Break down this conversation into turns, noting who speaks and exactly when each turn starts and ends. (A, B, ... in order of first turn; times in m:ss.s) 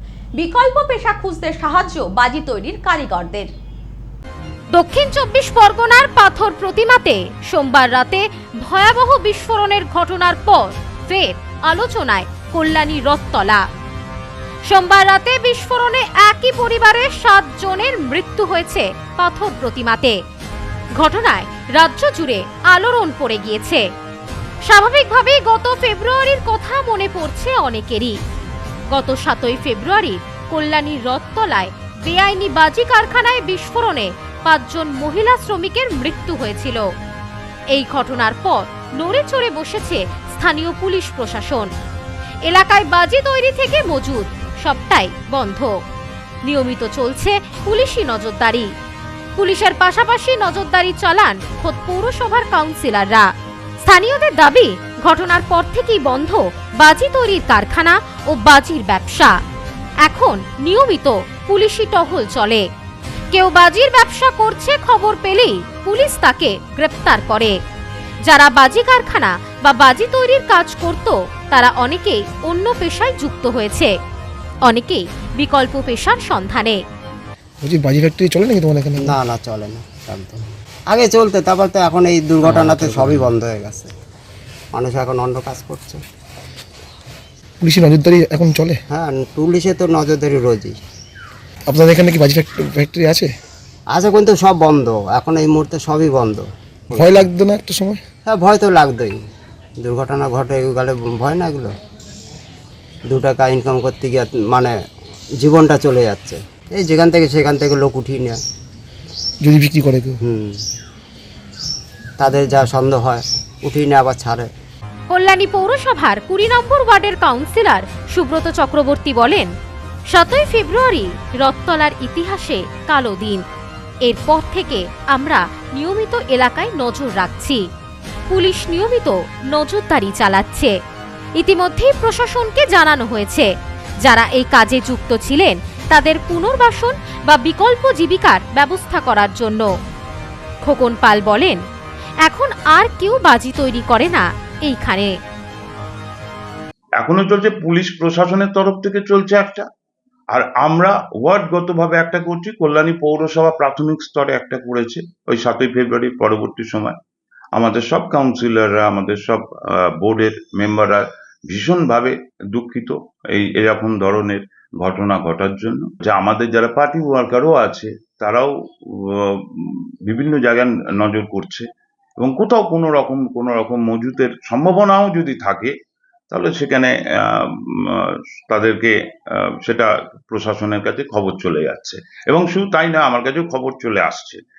0:00.4-0:03.5 A
0:04.7-0:13.6 B
0:14.7-0:20.1 B
0:21.0-0:23.8 B
0:24.6-0:28.2 B
0:28.9-0:36.8 B
0:37.7-0:41.7 B
0:42.4-0:45.7 B
0:46.4-0:48.7 B
0:49.4-0:53.3 B
0:53.8-0:59.3 B
1:00.0-1:02.6 B
1:03.3-1:07.5 B
1:08.2-1:13.9 B
1:14.6-1:16.8 B
1:17.6-1:19.1 C
1:19.0-1:23.9 D
1:22.5-1:23.2 C
1:24.7-1:26.0 D
1:27.6-1:28.8 C
1:28.9-1:30.7 D
1:31.7-1:33.3 C
1:33.9-1:37.3 D
1:37.0-1:38.0 C
1:38.3-1:39.2 D
1:39.8-1:41.7 D
1:43.1-1:44.7 D
1:45.4-1:48.4 D
1:49.4-1:50.2 C
1:50.2-1:50.6 D
1:52.2-1:54.5 D
1:55.1-1:59.5 B
2:00.1-2:03.4 B
2:04.0-2:07.6 B
2:08.3-2:10.7 B
2:11.4-2:13.5 B
2:14.0-2:19.7 B
2:20.6-2:21.6 B
2:22.2-2:25.1 B
2:27.0-2:29.6 E
2:30.3-2:37.0 E
2:37.5-2:39.4 E
2:40.0-2:48.5 E
2:49.1-2:51.7 E
2:52.2-2:55.7 E
2:56.3-2:58.9 E
2:59.6-3:04.4 E